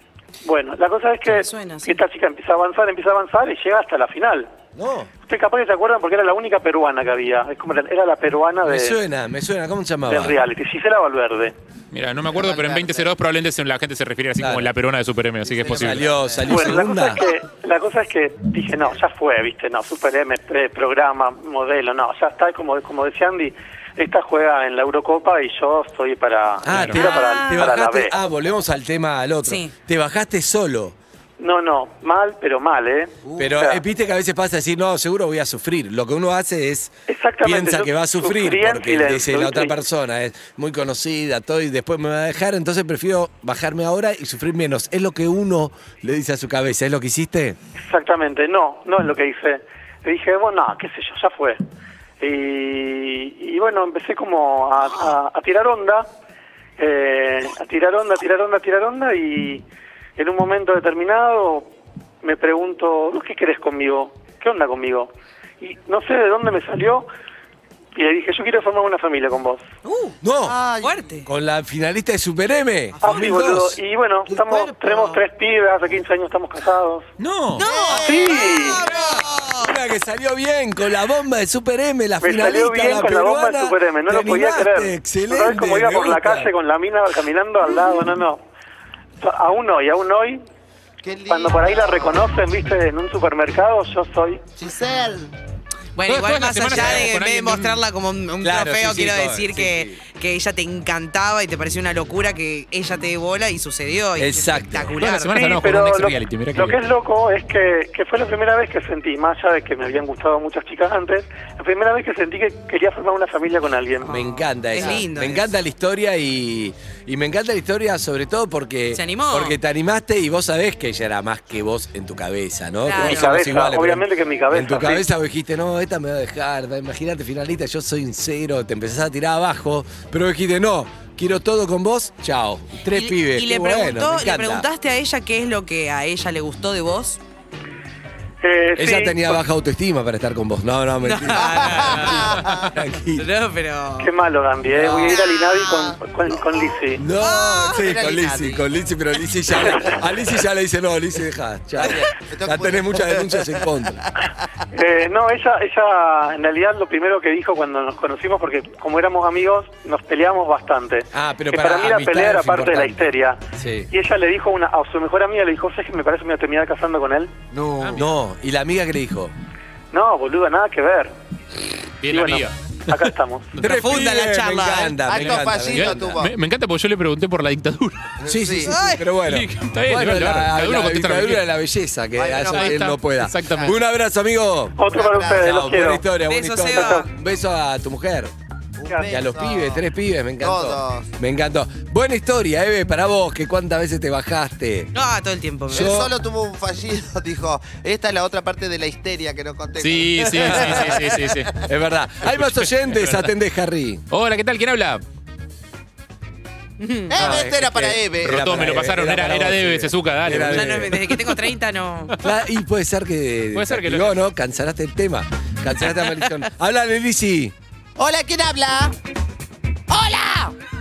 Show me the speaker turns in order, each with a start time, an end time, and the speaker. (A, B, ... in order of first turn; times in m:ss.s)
0:00.4-0:04.5 A
0:01.3-0:02.0 B
0:04.8-0:05.1 C
0:05.2-0:09.0 A
0:08.6-0:10.4 C
0:10.1-0:11.5 A
0:11.9-0:16.1 D
0:12.3-0:13.1 E
0:14.4-0:14.7 C
0:15.4-0:16.6 E
0:15.6-0:17.2 C
0:16.4-0:28.1 A
0:26.6-0:31.0 C
0:26.7-0:27.0 D
0:27.0-0:27.7 B
0:29.4-0:29.7 B
0:31.4-0:33.8 A
0:33.2-0:33.5 E
0:33.4-0:47.6 C
0:37.1-0:39.8 A
0:47.8-0:51.6 A
0:52.2-0:56.1 A
0:56.8-0:59.6 A
1:00.2-1:01.7 A
1:02.2-1:07.0 A
1:07.9-1:09.6 A
1:09.8-1:10.2 B
1:10.2-1:10.6 C
1:10.4-1:11.2 E
1:10.8-1:11.2 B
1:11.2-1:13.8 C
1:13.0-1:17.0 A
1:14.3-1:15.2 E
1:17.2-1:17.7 D
1:17.5-1:19.7 B
1:17.6-1:19.1 E
1:17.9-1:18.9 A
1:18.3-1:26.5 C
1:22.2-1:28.4 A
1:29.2-1:30.4 A
1:31.0-1:32.2 E
1:31.3-1:34.4 A
1:34.6-1:35.3 E
1:36.0-1:45.3 B
1:36.1-1:37.8 D
1:36.7-1:37.1 C
1:38.4-1:40.0 C
1:44.2-1:45.0 C
1:45.0-1:46.8 D
1:45.2-1:54.2 A
1:54.0-1:55.5 B
1:54.0-2:14.7 C
1:58.9-1:59.6 B
2:02.8-2:03.4 B
2:02.9-2:05.1 A
2:12.8-2:17.2 B
2:18.4-2:19.4 A
2:18.8-2:23.3 C
2:21.0-2:22.2 B
2:21.3-2:22.7 E
2:23.2-2:24.1 B
2:24.0-2:27.1 A
2:24.7-2:25.2 C
2:25.1-2:25.4 B
2:25.3-2:26.6 E
2:27.0-2:34.0 C
2:27.1-2:27.8 B
2:27.7-2:28.6 E
2:29.5-2:30.3 E
2:31.8-2:33.7 E
2:34.7-2:43.4 A
2:41.1-2:43.9 C
2:43.9-2:47.3 A
2:47.5-2:48.0 E
2:47.9-2:49.3 C
2:49.9-2:51.1 A
2:52.0-2:52.5 D
2:52.1-2:53.6 A
2:53.6-2:56.2 C
2:53.6-2:55.0 B
2:55.0-2:56.3 E
2:55.7-2:58.0 D
2:58.2-2:58.7 E
2:58.2-3:04.8 C
2:58.6-2:59.1 B
2:59.2-3:01.4 D
3:02.1-3:03.7 E
3:02.5-3:03.7 D
3:04.8-3:06.0 A
3:04.8-3:05.6 E
3:05.3-3:08.3 C
3:06.2-3:07.0 B
3:06.7-3:07.1 A
3:08.8-3:09.8 E
3:08.9-3:09.2 A
3:09.1-3:14.9 C
3:10.4-3:11.1 E
3:14.9-3:15.9 B
3:15.7-3:16.1 C
3:15.7-3:21.5 E
3:19.8-3:21.5 D
3:20.3-3:21.1 C
3:21.6-3:24.0 C
3:22.2-3:23.3 D
3:24.1-3:25.0 D
3:26.8-3:27.2 B
3:27.1-3:28.7 E
3:27.1-3:31.2 C
3:28.2-3:31.0 D
3:30.3-3:32.1 B
3:32.2-3:37.5 C
3:33.5-3:34.2 D
3:35.9-3:36.3 B
3:38.0-3:39.0 E
3:39.9-3:40.5 E